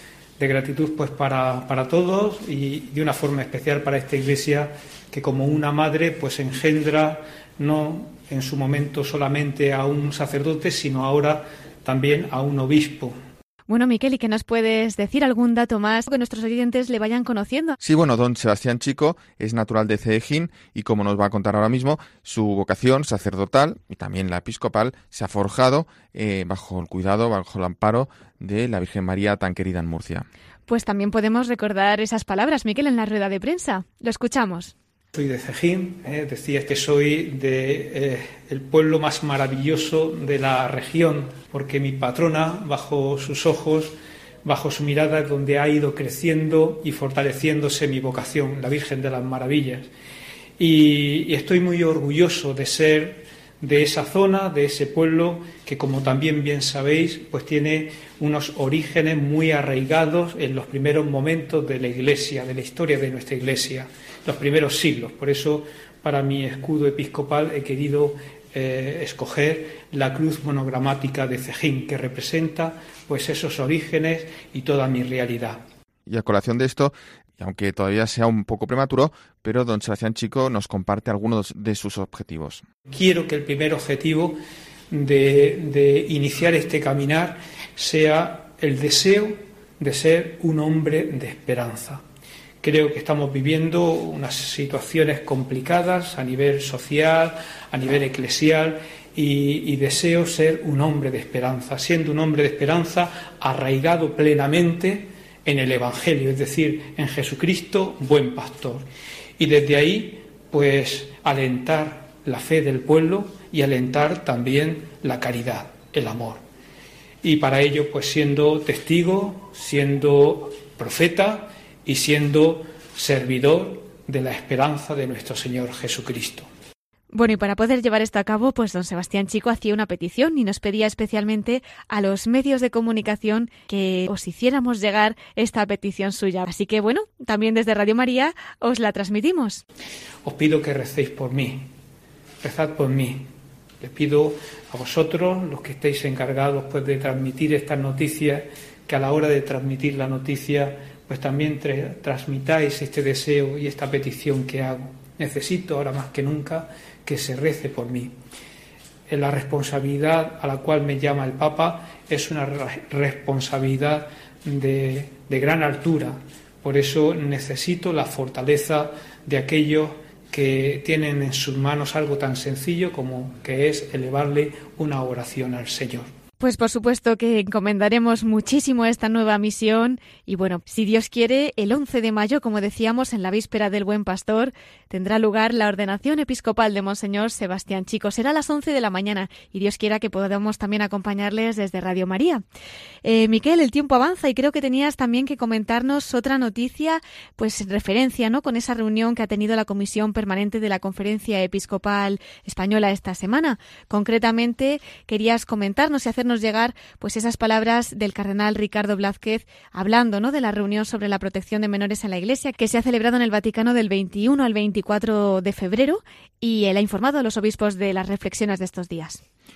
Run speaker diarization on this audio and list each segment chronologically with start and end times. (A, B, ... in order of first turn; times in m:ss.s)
0:00.4-0:13.2 A
0:13.7-0:17.8 B
0:17.8-0:30.3 C
0:30.7-0:34.7 B
0:35.1-0:43.9 A
0:44.4-0:49.9 A
0:50.6-1:15.6 A
1:16.1-1:22.6 C
1:22.9-1:24.4 A
1:24.9-1:32.0 A
1:32.6-1:48.9 A
1:49.4-1:56.4 A
1:57.2-2:06.5 A
2:07.1-2:19.6 B
2:20.2-2:21.7 A
2:22.4-2:23.3 A
2:23.8-2:38.2 A
2:39.1-2:56.1 A
2:56.4-3:12.4 B
3:13.0-3:39.2 B